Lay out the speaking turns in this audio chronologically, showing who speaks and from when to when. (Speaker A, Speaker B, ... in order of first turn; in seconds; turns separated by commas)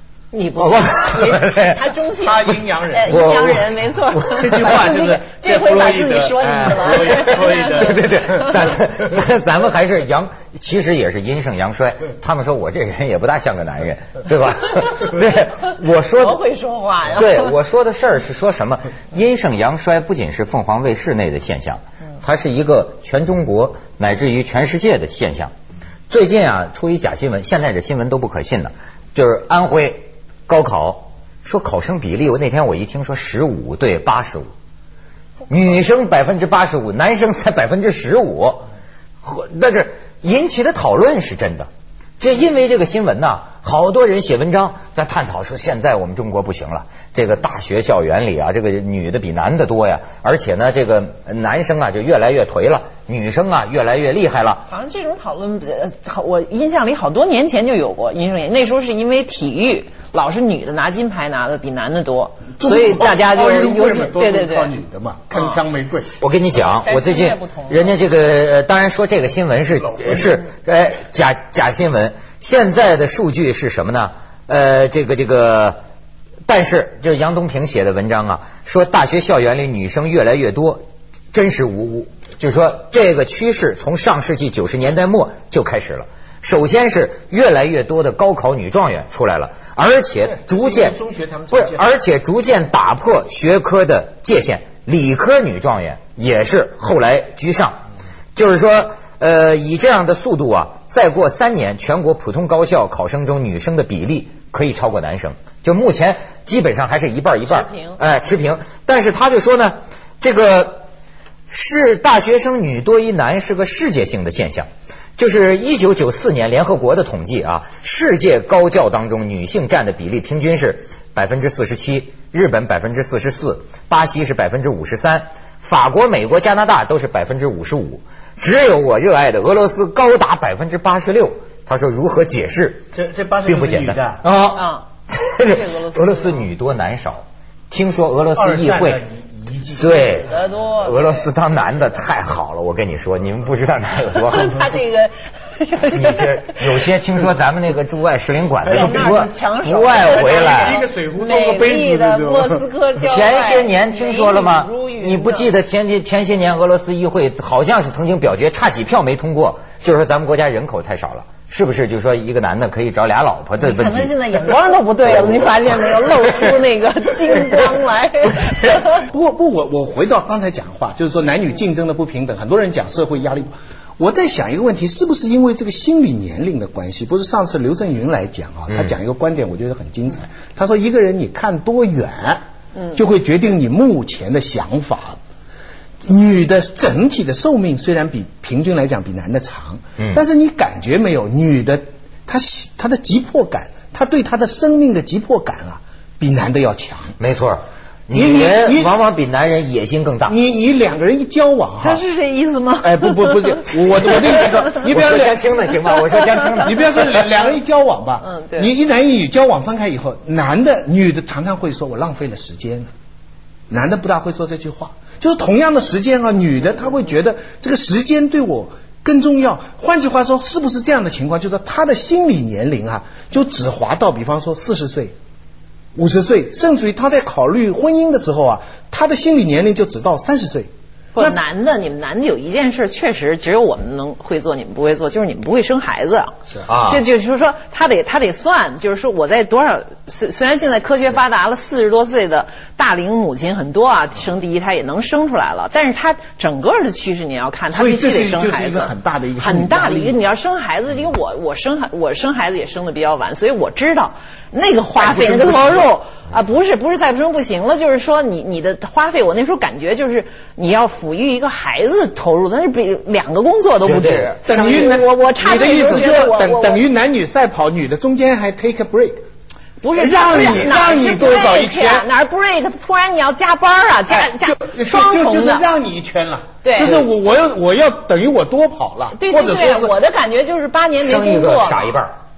Speaker A: 0.3-8.8, Speaker B: 0.6-1.8, Speaker C: 2.2-3.3, Speaker B: 3.1-4.5, Speaker C: 4.4-8.2, Speaker B: 6.6-16.4, Speaker A: 16.1-17.5, Speaker B: 17.1-25.5, Speaker B: 26.1-34.5, Speaker B: 35.5-38.7, Speaker B: 39.2-41.7, Speaker B: 42.2-54.7, Speaker A: 54.7-64.8, Speaker C: 62.6-66.1, Speaker B: 66.2-75.8, Speaker A: 66.5-68.0, Speaker C: 69.9-70.4, Speaker B: 76.5-91.0, Speaker C: 90.2-92.0, Speaker B: 91.5-97.8, Speaker B: 98.4-110.8, Speaker A: 107.4-108.0, Speaker B: 111.5-114.7, Speaker B: 115.2-132.8, Speaker C: 132.9-134.2, Speaker B: 133.5-139.0, Speaker A: 134.6-134.8, Speaker A: 135.4-136.5, Speaker C: 138.3-140.3, Speaker B: 139.7-144.8, Speaker A: 140.0-141.3, Speaker A: 144.2-146.5, Speaker B: 145.9-150.8, Speaker A: 148.7-155.5, Speaker C: 148.7-149.0, Speaker C: 150.0-152.6, Speaker B: 153.0-164.1, Speaker A: 163.6-169.1, Speaker B: 165.1-166.1, Speaker C: 169.0-182.4, Speaker C: 182.9-185.2, Speaker C: 186.1-197.1, Speaker B: 197.2-200.4, Speaker C: 198.2-198.9, Speaker C: 200.3-202.0, Speaker A: 201.8-203.6, Speaker C: 202.8-205.4, Speaker B: 204.0-207.2, Speaker C: 206.6-212.9, Speaker A: 208.2-208.7, Speaker C: 213.7-225.1, Speaker C: 226.0-231.4, Speaker A: 231.2-266.8, Speaker B: 236.7-237.0, Speaker C: 247.7-250.2, Speaker C: 254.9-255.9, Speaker B: 263.8-265.0, Speaker C: 264.4-269.2, Speaker A: 269.8-275.7, Speaker C: 269.9-272.1, Speaker C: 274.1-279.9, Speaker A: 276.6-277.0, Speaker A: 279.1-281.9, Speaker B: 281.0-282.1